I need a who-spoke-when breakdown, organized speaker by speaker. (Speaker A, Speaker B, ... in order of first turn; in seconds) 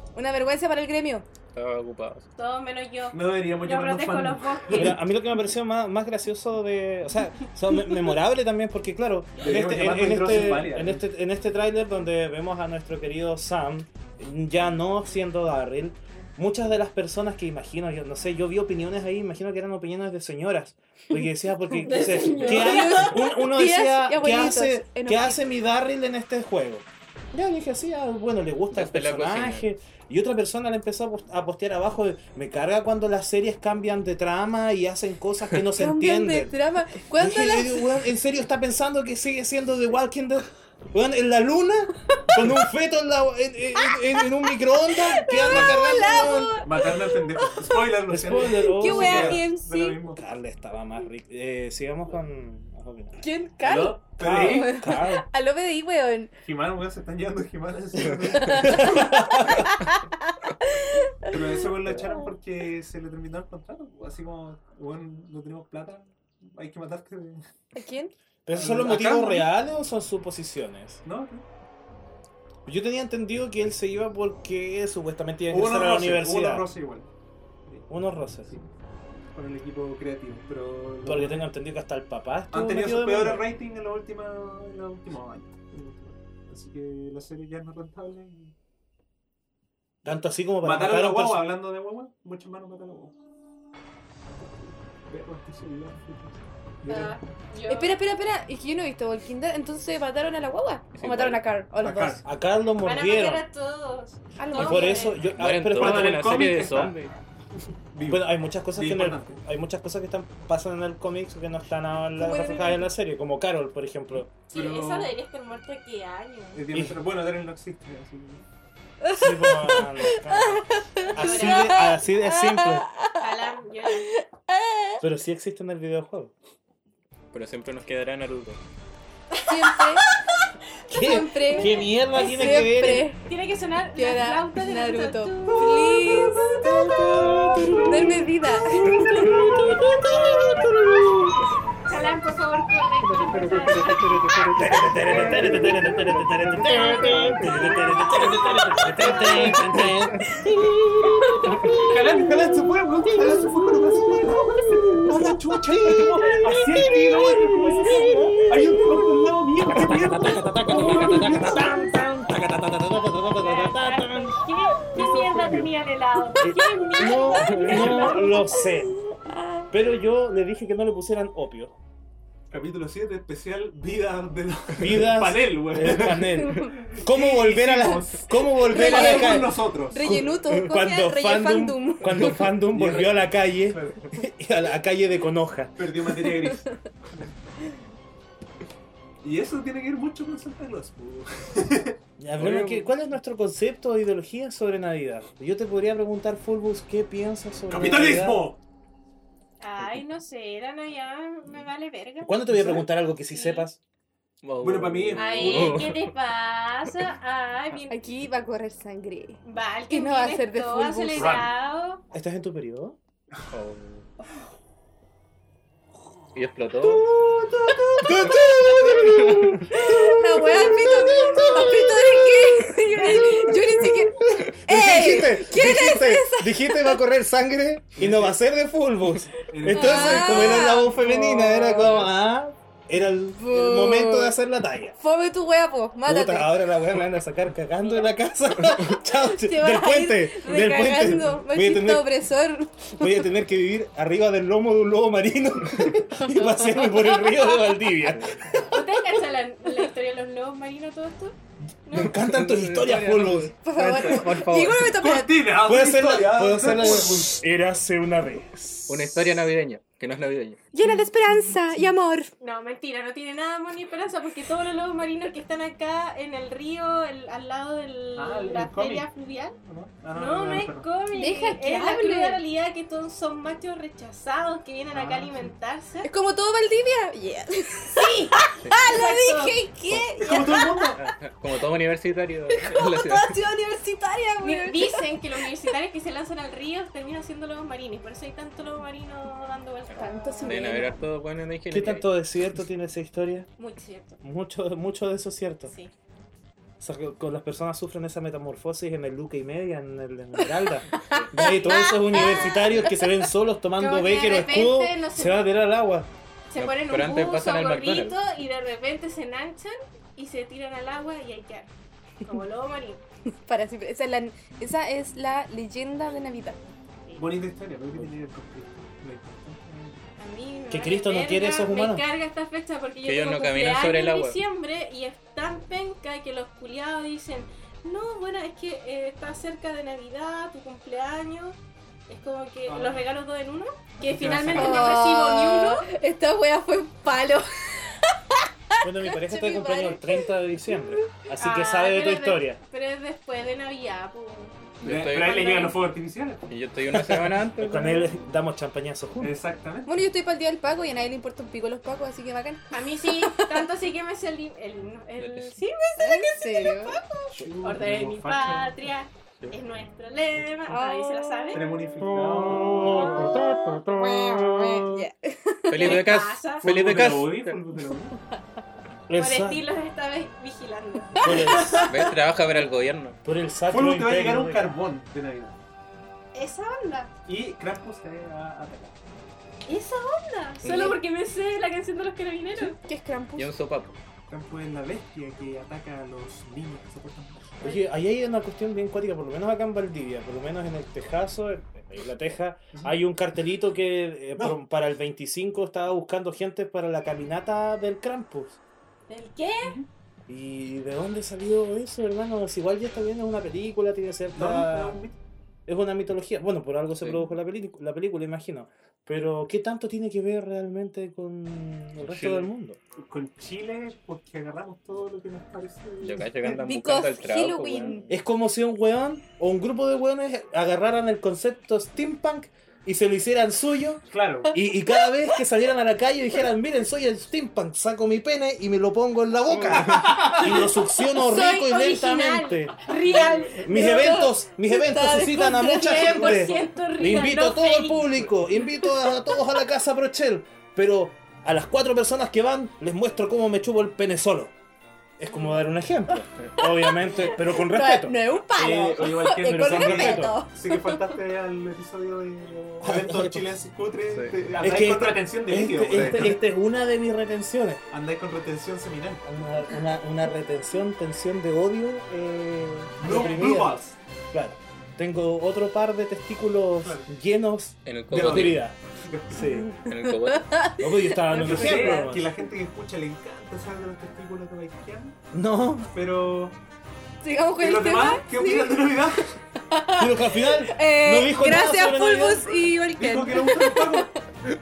Speaker A: 0.1-1.3, 22.4-25.5, 35.7-37.9, 43.8-44.2, 44.9-50.0, 53.2-56.3, 58.4-61.6, 67.7-68.1, 97.7-102.2, 104.4-105.1, 112.2-112.7, 119.0-123.2, 124.1-125.0, 129.4-130.1, 130.9-133.2, 134.0-136.4, 137.8-139.5, 149.0-149.6, 151.1-152.0, 154.2-155.3, 156.2-159.2, 167.0-169.7, 176.5-176.7, 178.7-182.3, 207.9-211.4, 218.3-218.8, 219.7-227.0, 229.7-232.1, 233.4-234.4, 235.0-236.5, 239.0-243.2, 246.2-247.8, 253.6-255.3, 260.7-262.3, 271.1-272.4, 276.0-280.9, 282.5-285.0, 290.0-291.0, 300.9-303.1, 313.5-316.6, 334.5-340.8, 349.9-353.6, 356.0-357.0, 360.7-361.6, 362.9-366.0, 371.2-371.9, 380.7-380.9, 382.8-383.5, 416.4-418.1, 433.4-436.5, 446.6-451.1, 469.4-472.1, 477.2-484.2
Speaker B: 1.5-2.3, 28.7-29.6, 101.0-101.4, 105.3-107.0, 127.3-128.6, 204.4-206.1, 213.5-214.1, 216.3-217.1, 219.1-219.5, 252.0-255.0, 258.9-260.6, 278.6-278.9, 280.9-283.4, 289.9-292.1, 301.0-301.5, 306.6-308.2, 323.1-324.4, 344.8-345.6, 346.5-348.1, 355.2-355.6, 365.7-367.6, 371.9-373.2, 380.6-381.0, 383.4-384.0, 407.0-407.3, 412.0-412.5, 416.0-418.1, 429.8-430.1, 454.1-454.4, 467.9-468.7, 469.8-470.7
Speaker C: 2.4-5.0, 21.9-23.0, 96.9-98.0, 102.8-105.3, 114.5-116.6, 121.0-121.8, 123.2-124.1, 129.4-130.2, 131.5-138.2, 138.9-139.8, 141.9-144.4, 148.8-149.3, 163.4-168.2, 199.6-202.5, 203.3-203.7, 205.2-208.0, 209.4-212.0, 240.5-240.9, 248.7-252.2, 262.4-269.6, 270.1-276.1, 277.9-279.6, 284.4-290.8, 293.6-294.2, 295.7-295.9, 301.6-302.7, 303.8-305.5, 306.5-311.7, 312.2-313.0, 320.2-331.6, 332.1-335.9, 341.4-345.8, 352.7-361.6, 362.9-363.4, 365.8-366.6, 369.2-371.8, 376.3-377.1, 379.7-382.8, 399.1-399.8, 430.3-433.7, 435.7-438.3
Speaker D: 3.1-5.0, 9.4-11.0, 45.5-50.2, 53.6-54.8, 56.5-59.1, 61.3-67.4, 68.5-69.5, 71.0-71.4, 75.5-77.1, 79.3-81.4, 82.5-88.5, 90.6-93.1, 95.1-97.2, 101.8-102.2, 105.7-106.9, 107.9-109.4, 114.5-115.1, 116.5-118.5, 136.6-137.8, 139.2-139.8, 143.0-150.2, 151.8-163.2, 164.9-165.7, 167.7-168.1, 172.5-180.1, 182.7-184.2, 185.8-186.7, 189.2-192.9, 197.7-198.6, 202.5-202.8, 204.6-205.9, 211.2-211.5, 216.8-220.0, 220.5-221.9, 222.9-223.5, 228.0-228.4, 229.5-230.7, 254.9-257.4, 268.2-269.1, 269.6-270.9, 274.9-275.5, 280.1-281.0, 317.2-320.0, 332.7-333.1, 334.0-335.0, 344.8-346.5, 349.2-349.9, 357.4-358.9, 361.5-363.1, 366.6-368.1, 373.7-375.6, 377.3-379.0, 384.3-387.6, 404.4-405.1, 413.0-416.6, 424.1-424.5, 429.7-430.6, 448.5-456.4, 457.9-459.2, 463.0-464.0, 466.8-467.1, 468.1-469.5, 471.3-475.2, 475.9-476.6, 477.6-479.3, 483.0-484.1
Speaker E: 4.7-36.5, 37.2-46.6, 48.1-49.5, 50.1-53.2, 54.2-55.3, 58.5-59.7, 68.5-71.0, 72.7-76.7, 77.9-78.5, 81.0-83.5, 90.0-91.5, 102.2-103.5, 104.5-107.1, 108.1-114.3, 116.7-117.0, 119.2-122.9, 125.0-126.3, 130.9-133.1, 136.6-138.3, 138.8-141.4, 144.6-151.9, 153.1-153.4, 155.8-158.7, 159.7-164.4, 166.4-169.0, 169.7-171.8, 174.8-185.8, 192.2-198.4, 202.2-203.8, 212.1-213.0, 218.0-222.1, 223.6-235.0, 236.1-242.2, 243.0-249.0, 251.9-253.6, 255.6-259.5, 291.7-293.5, 294.2-295.7, 296.8-306.1, 320.7-322.1, 338.8-342.6, 346.9-349.4, 362.0-365.1, 369.1-369.6, 371.2-371.9, 373.2-374.8, 387.6-398.6, 400.3-405.0, 405.7-412.8, 418.1-432.9, 433.5-444.5, 445.2-448.2, 449.4-450.4, 452.8-453.5, 454.6-457.8, 459.2-463.8, 464.3-468.8, 469.3-469.7, 470.8-472.3, 475.3-475.9, 480.0-482.5